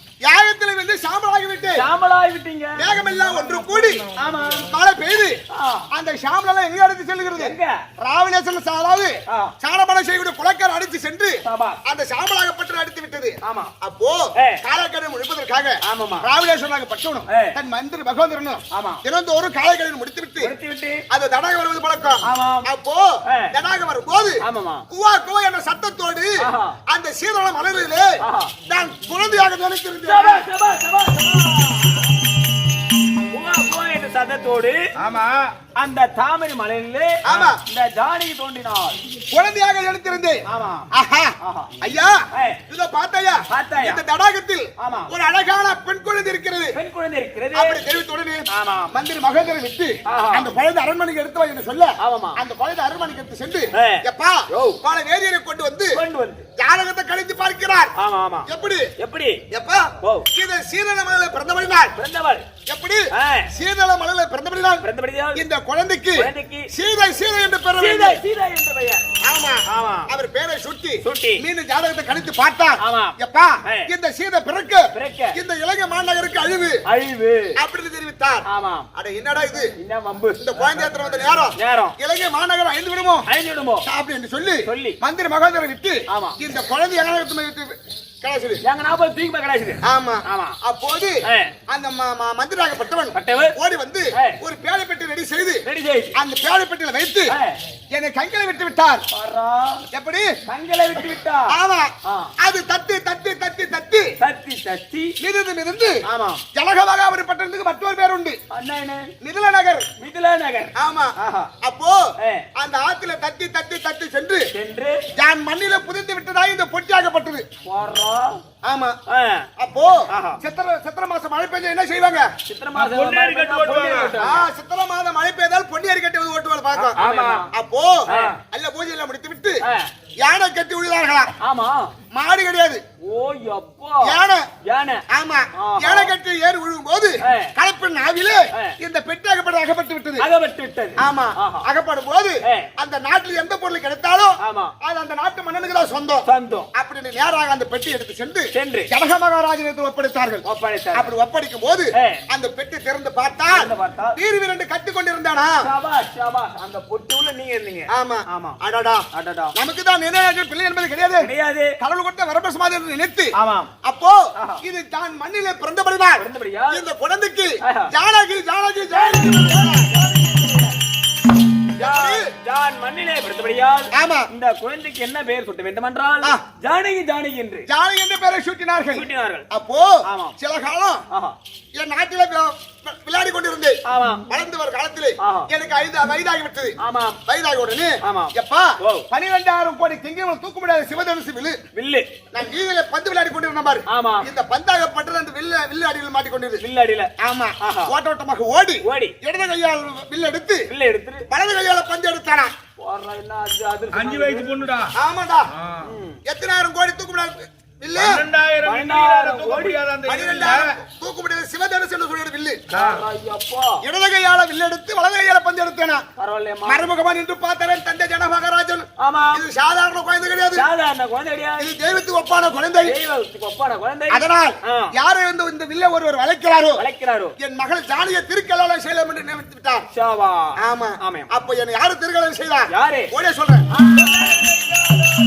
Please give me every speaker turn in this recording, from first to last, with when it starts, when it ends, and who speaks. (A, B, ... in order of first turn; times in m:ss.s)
0:00.2-0:01.8 A
0:01.7-0:02.8 B
0:02.8-0:04.0 A
0:03.0-0:04.6 C
0:04.2-0:04.7 B
0:04.7-0:05.4 A
0:05.5-0:05.9 B
0:05.9-0:20.5 A
0:07.4-0:07.8 B
0:09.3-0:09.5 B
0:11.4-0:11.8 B
0:13.4-0:13.7 B
0:14.4-0:14.6 B
0:15.8-0:16.3 B
0:17.3-0:17.6 B
0:18.7-0:19.0 B
0:20.4-0:21.0 B
0:21.1-0:30.5 A
0:22.2-0:22.6 B
0:23.2-0:23.5 B
0:24.4-0:24.9 B
0:26.4-0:26.8 B
0:28.2-0:28.5 B
0:30.0-0:32.1 B
0:33.3-0:34.9 B
0:35.0-0:35.5 C
0:35.8-0:39.0 B
0:37.2-0:37.6 A
0:37.3-0:37.5 C
0:39.3-0:40.4 A
0:40.5-0:40.9 B
0:40.9-0:46.7 A
0:41.4-0:41.7 B
0:42.3-0:42.6 B
0:43.5-0:44.0 B
0:44.8-0:45.1 B
0:46.7-0:47.8 B
0:47.5-0:56.0 A
0:48.5-0:48.9 B
0:50.1-0:50.5 B
0:52.0-0:52.4 B
0:53.7-0:54.8 B
0:55.9-0:56.4 B
0:56.6-0:57.9 A
0:58.0-0:59.4 B
0:58.5-0:58.9 A
0:59.5-1:01.9 A
1:00.0-1:00.3 B
1:01.9-1:02.4 B
1:02.7-1:08.2 A
1:03.1-1:03.5 B
1:04.8-1:05.4 B
1:06.2-1:06.7 B
1:07.8-1:09.0 B
1:09.2-1:16.8 A
1:09.7-1:10.1 B
1:11.0-1:11.4 B
1:12.8-1:13.9 B
1:14.9-1:15.4 B
1:16.8-1:17.6 B
1:17.6-1:19.7 A
1:18.5-1:18.9 B
1:19.8-1:20.4 B
1:20.4-1:23.3 A
1:21.6-1:22.0 B
1:23.3-1:23.9 B
1:23.8-1:28.6 A
1:24.6-1:25.0 B
1:26.1-1:26.4 B
1:28.6-1:30.6 B
1:29.8-1:35.6 A
1:31.2-1:31.5 B
1:33.1-1:33.6 B
1:34.1-1:34.4 B
1:35.6-1:36.2 B
1:36.2-1:37.3 A
1:37.3-1:37.6 B
1:37.9-1:39.0 A
1:39.1-1:39.8 B
1:39.9-1:40.3 A
1:40.5-1:41.5 B
1:41.5-1:44.1 A
1:42.0-1:42.3 B
1:44.2-1:45.2 B
1:45.2-1:46.0 A
1:46.1-1:46.4 B
1:46.5-1:48.4 A
1:48.5-1:49.1 B
1:49.2-1:49.9 A
1:50.0-1:51.5 B
1:50.8-1:54.5 A
1:52.2-1:52.4 B
1:54.5-1:55.0 B
1:55.2-1:57.4 A
1:57.6-1:58.4 B
1:58.6-1:59.0 A
1:59.1-1:59.5 B
1:59.6-2:02.3 A
2:00.1-2:00.4 B
2:02.5-2:04.4 B
2:02.7-2:04.2 C
2:04.2-2:07.0 A
2:06.7-2:07.4 C
2:07.0-2:07.5 B
2:07.5-2:09.6 A
2:08.1-2:08.4 B
2:09.6-2:09.9 B
2:10.2-2:11.3 A
2:11.4-2:11.9 B
2:12.1-2:12.8 A
2:13.0-2:15.0 B
2:14.0-2:14.5 A
2:15.1-2:20.2 A
2:15.6-2:16.1 B
2:17.2-2:17.5 B
2:20.2-2:21.7 B
2:21.0-2:30.4 A
2:22.4-2:22.7 B
2:24.4-2:24.7 B
2:26.2-2:26.7 B
2:28.5-2:28.9 B
2:30.4-2:31.1 B
2:30.9-2:35.6 A
2:31.9-2:32.2 B
2:33.5-2:34.2 B
2:35.6-2:38.6 B
2:37.9-2:39.0 A
2:39.1-2:39.5 B
2:39.5-2:49.9 A
2:41.2-2:41.7 B
2:43.4-2:43.7 B
2:44.4-2:44.6 B
2:46.2-2:46.8 B
2:47.6-2:47.9 B
2:48.9-2:50.7 B
2:51.8-2:52.2 A
2:51.8-2:57.7 B
2:53.9-2:54.3 A
2:57.7-3:01.0 A
2:58.9-2:59.4 B
3:00.0-3:00.4 B
3:01.1-3:01.4 B
3:01.8-3:11.6 A
3:03.8-3:04.2 B
3:05.2-3:05.5 B
3:06.8-3:07.2 B
3:08.0-3:09.1 B
3:11.7-3:12.1 B
3:12.3-3:16.6 A
3:13.9-3:14.3 B
3:16.6-3:17.1 B
3:17.2-3:20.6 A
3:17.6-3:17.9 B
3:18.8-3:19.1 B
3:20.7-3:21.3 B
3:21.3-3:22.5 A
3:22.8-3:24.6 B
3:23.9-3:24.9 C
3:25.0-3:25.5 A
3:25.5-3:25.9 C
3:25.8-3:26.2 B
3:26.2-3:28.2 A
3:28.0-3:30.8 C
3:28.6-3:29.8 B
3:30.1-3:32.6 A
3:32.7-3:33.8 B
3:32.7-3:33.0 C
3:33.8-3:36.0 A
3:36.2-3:36.9 B
3:36.7-3:40.7 A
3:39.0-3:39.4 B
3:40.5-3:41.7 B
3:41.6-3:43.0 A
3:42.8-3:44.9 B
3:44.1-3:46.8 A
3:46.8-3:47.3 B
3:47.4-3:49.8 A
3:49.9-3:51.3 B
3:50.6-3:53.7 A
3:52.7-3:53.1 B
3:53.7-3:54.4 B